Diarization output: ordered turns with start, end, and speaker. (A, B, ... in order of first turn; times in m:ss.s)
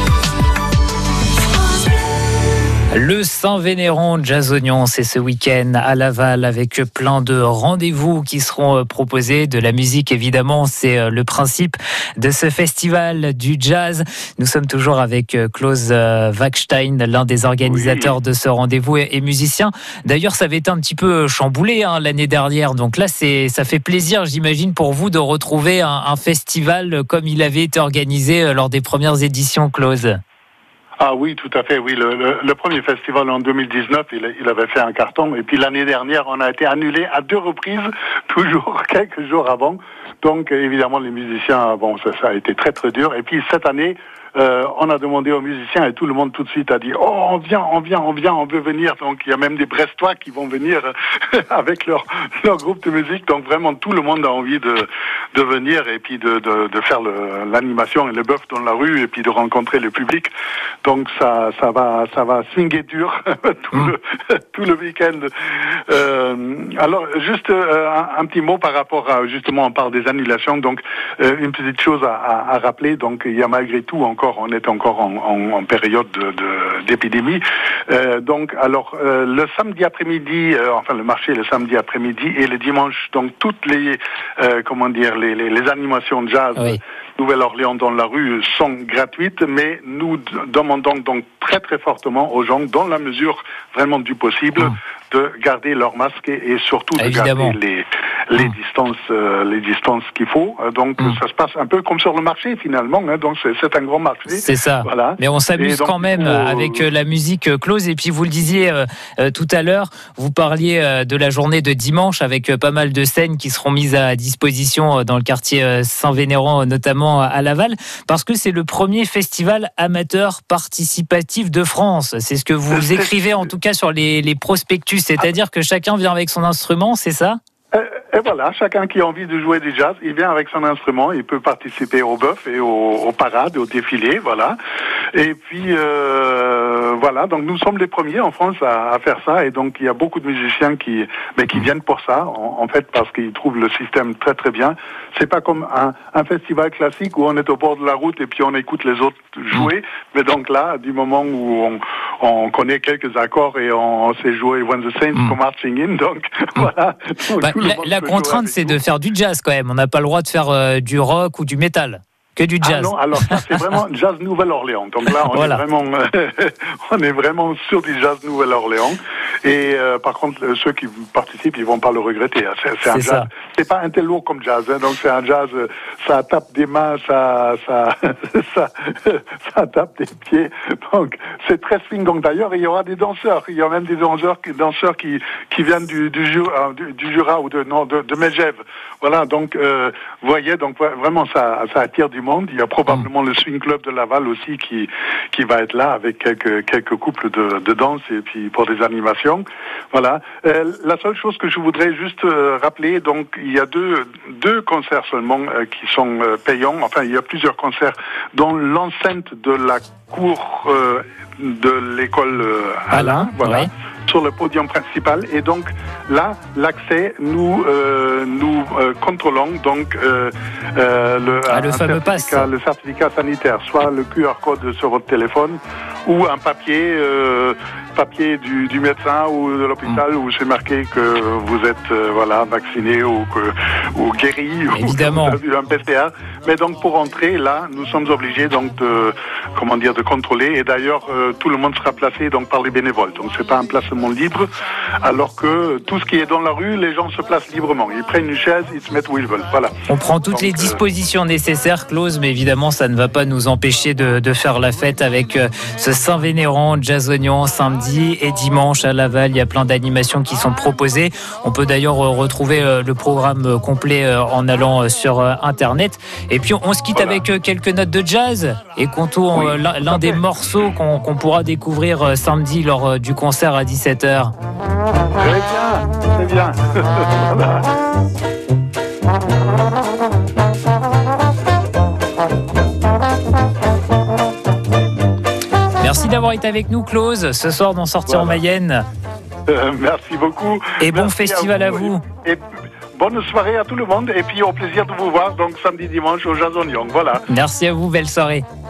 0:02.9-0:30.2 A
0:17.6-0:18.2 B
0:31.0-1:00.3 B
1:00.8-1:46.9 B
1:37.0-1:37.6 A
1:44.3-2:07.4 A
2:02.7-2:03.5 B
2:07.7-2:14.6 B
2:15.1-2:38.9 B
2:37.4-2:43.4 A
2:42.6-4:04.5 B
2:45.2-2:45.6 A
2:52.9-2:53.3 A
3:32.9-3:33.7 A
3:41.5-3:42.5 A
3:54.7-3:55.4 A
4:05.0-4:10.8 B
4:09.9-4:34.3 A
4:26.9-4:27.2 B
4:29.3-4:30.2 B
4:35.2-4:37.6 B
4:45.8-4:48.8 A
4:48.1-4:48.4 B
4:49.5-4:52.4 B
4:50.8-4:52.0 A
4:52.9-4:57.2 B
4:57.3-4:58.4 A